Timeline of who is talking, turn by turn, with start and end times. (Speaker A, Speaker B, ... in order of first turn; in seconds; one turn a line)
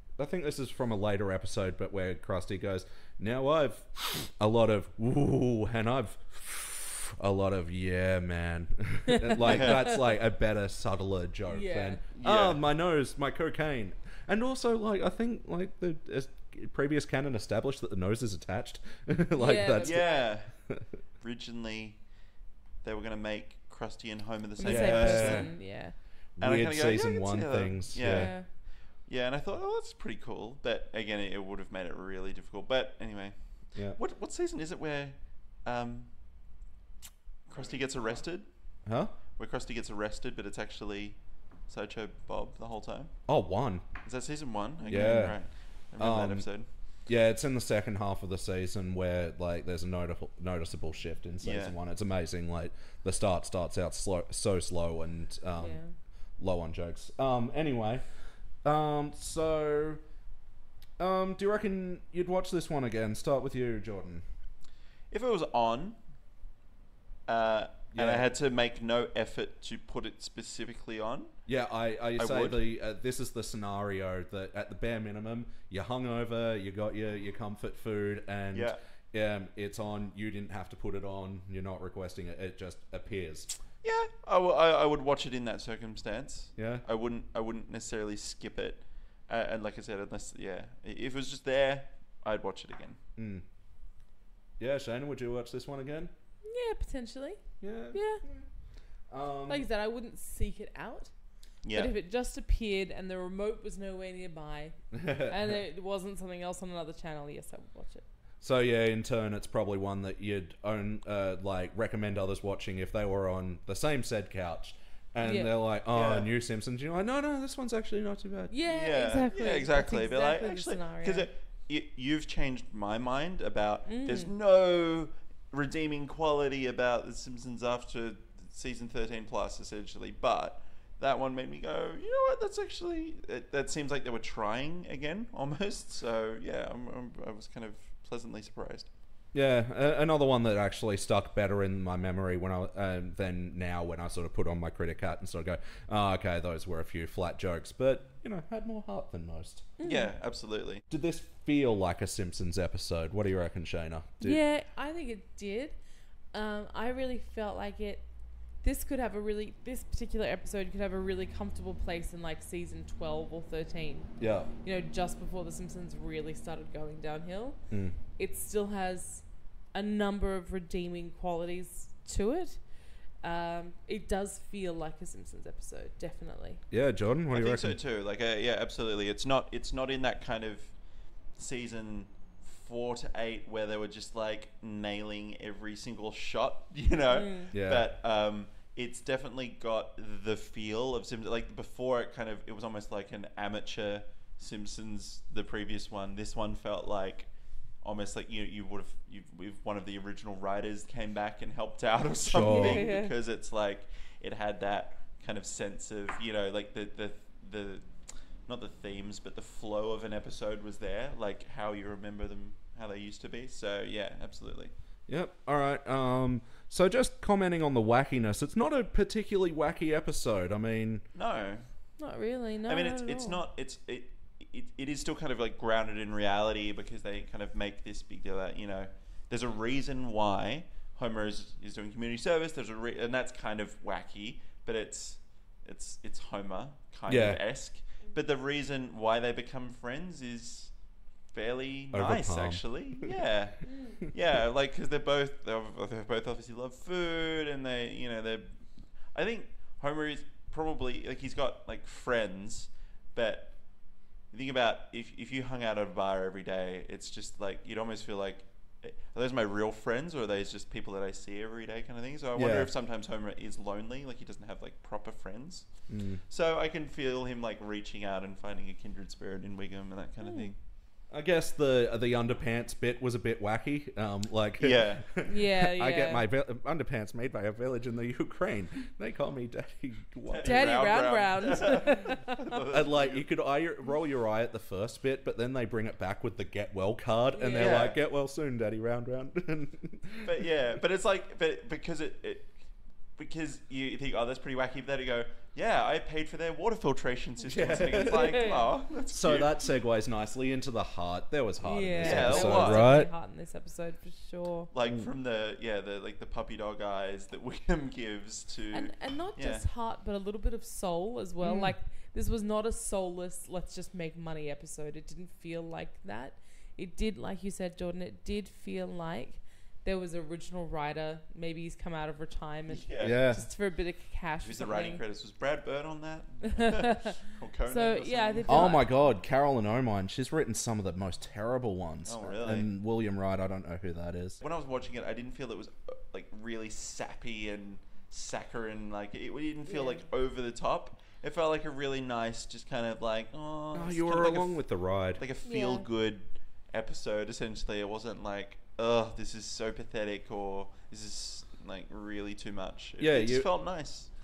Speaker A: 0.2-20.8
Speaker B: 9.1-9.7
Speaker C: 9.4-10.0
Speaker B: 11.5-12.0
Speaker C: 12.2-12.6
Speaker B: 19.4-20.2
Speaker C: 19.8-20.6
Speaker C: 21.2-22.1
Speaker C: 22.8-25.6
Speaker B: 24.6-25.9
Speaker A: 24.6-25.5
Speaker A: 26.4-28.3
Speaker C: 26.4-36.1
Speaker B: 28.0-28.5
Speaker C: 37.5-38.5
Speaker A: 38.9-39.1
Speaker C: 39.4-43.1
Speaker A: 43.3-43.8
Speaker C: 44.0-46.7
Speaker A: 44.9-46.5
Speaker B: 44.9-45.2
Speaker A: 47.0-55.8
Speaker C: 51.4-51.7
Speaker B: 55.6-55.9
Speaker A: 56.4-58.0
Speaker A: 58.6-60.0
Speaker A: 61.0-64.2
Speaker C: 65.1-66.0
Speaker C: 67.3-71.3
Speaker A: 67.9-68.3
Speaker A: 71.5-83.5
Speaker C: 72.2-72.6
Speaker C: 78.5-78.8
Speaker C: 83.8-93.0
Speaker A: 86.5-86.8
Speaker A: 93.2-93.4
Speaker A: 94.6-96.1
Speaker B: 96.4-98.2
Speaker A: 97.6-98.5
Speaker A: 99.1-99.7
Speaker B: 99.5-101.1
Speaker C: 101.6-101.9
Speaker B: 101.7-108.0
Speaker A: 104.9-105.3
Speaker A: 108.4-118.5
Speaker B: 115.2-115.5
Speaker C: 115.9-116.3
Speaker B: 118.5-121.3
Speaker C: 118.7-138.9
Speaker B: 123.8-124.3
Speaker A: 139.3-149.7
Speaker B: 149.8-150.1
Speaker C: 149.8-150.8
Speaker A: 150.9-154.4
Speaker B: 154.2-155.8
Speaker B: 156.3-158.1
Speaker B: 158.6-164.1
Speaker A: 164.2-164.5
Speaker B: 164.6-167.6
Speaker A: 167.7-167.9
Speaker B: 168.2-172.6
Speaker B: 173.2-176.6
Speaker A: 176.7-177.8
Speaker C: 177.3-180.8
Speaker C: 181.3-207.9
Speaker B: 187.1-187.5
Speaker A: 187.5-187.9
Speaker A: 202.2-202.9
Speaker B: 202.4-203.1
Speaker C: 208.4-214.7
Speaker A: 215.1-221.0
Speaker C: 221.1-221.6
Speaker B: 222.0-223.4
Speaker C: 222.7-240.7
Speaker A: 237.1-237.4
Speaker C: 241.3-253.6
Speaker A: 241.9-243.1
Speaker B: 243.6-244.0
Speaker C: 254.3-270.6
Speaker A: 262.3-262.7
Speaker A: 265.9-266.2
Speaker B: 270.2-270.5
Speaker A: 271.1-280.8
Speaker C: 274.6-275.2
Speaker B: 275.2-276.2
Speaker C: 280.2-283.3
Speaker B: 280.4-282.3
Speaker A: 282.7-290.3
Speaker B: 287.3-287.9
Speaker C: 287.5-288.0
Speaker C: 290.2-292.6
Speaker C: 293.2-299.5
Speaker A: 297.5-298.4
Speaker B: 297.9-298.7
Speaker A: 299.1-303.1
Speaker B: 301.6-304.7
Speaker C: 302.0-302.9
Speaker C: 304.7-309.6
Speaker B: 308.7-325.0
Speaker A: 311.4-311.7
Speaker C: 322.7-323.2
Speaker A: 323.0-323.4
Speaker C: 324.4-328.8
Speaker B: 326.6-327.1
Speaker B: 327.7-328.9
Speaker A: 328.5-334.4
Speaker C: 332.1-332.7
Speaker C: 334.4-354.1
Speaker B: 339.6-340.0
Speaker A: 343.7-345.2
Speaker B: 345.4-345.9
Speaker A: 353.0-353.5